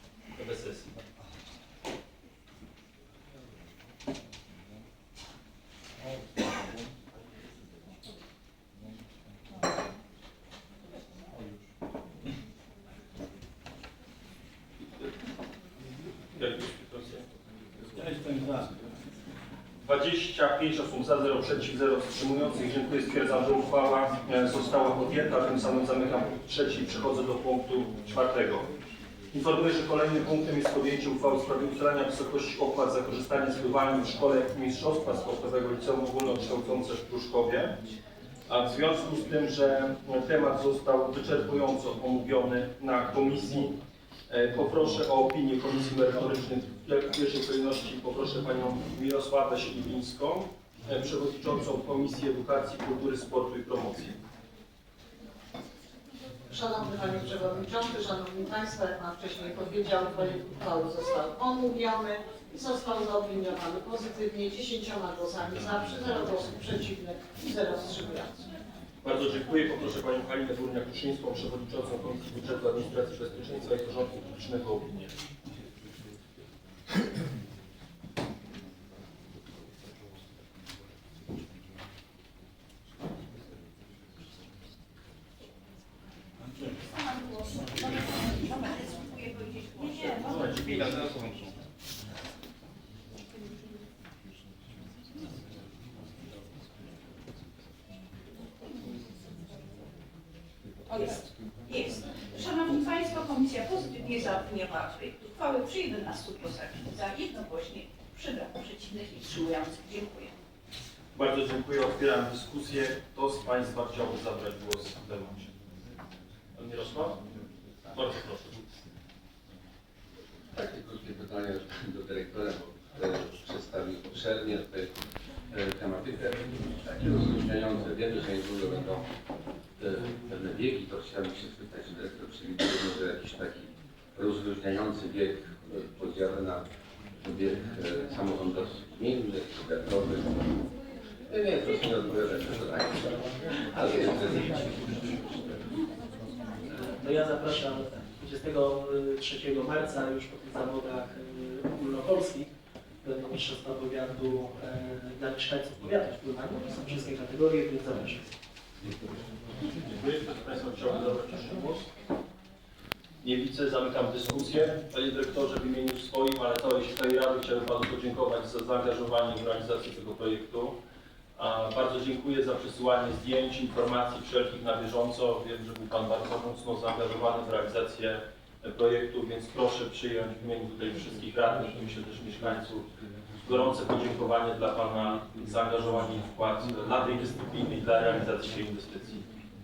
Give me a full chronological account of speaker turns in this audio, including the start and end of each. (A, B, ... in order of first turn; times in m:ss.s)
0:00.4-0:00.9 A
0:16.4-0:17.2 A
0:17.9-0:18.7 B
0:19.8-0:28.7 A
0:29.3-0:37.7 A
0:38.5-0:43.8 A
0:44.3-0:54.2 A
0:56.5-1:08.3 C
1:09.0-1:15.1 A
1:26.6-1:30.9 D
1:30.1-1:31.5 B
1:40.9-1:50.3 D
1:51.2-1:55.5 A
1:56.6-1:57.2 A
1:57.9-1:58.6 A
2:00.6-2:04.9 E
2:05.5-2:09.0 E
2:09.8-2:16.6 E
2:17.2-2:20.4 E
2:21.3-2:25.6 E
2:26.7-2:32.5 F
2:33.0-2:38.3 F
2:39.9-2:41.9 A
2:43.2-2:50.8 A
2:51.4-3:02.9 A
3:03.4-3:09.2 A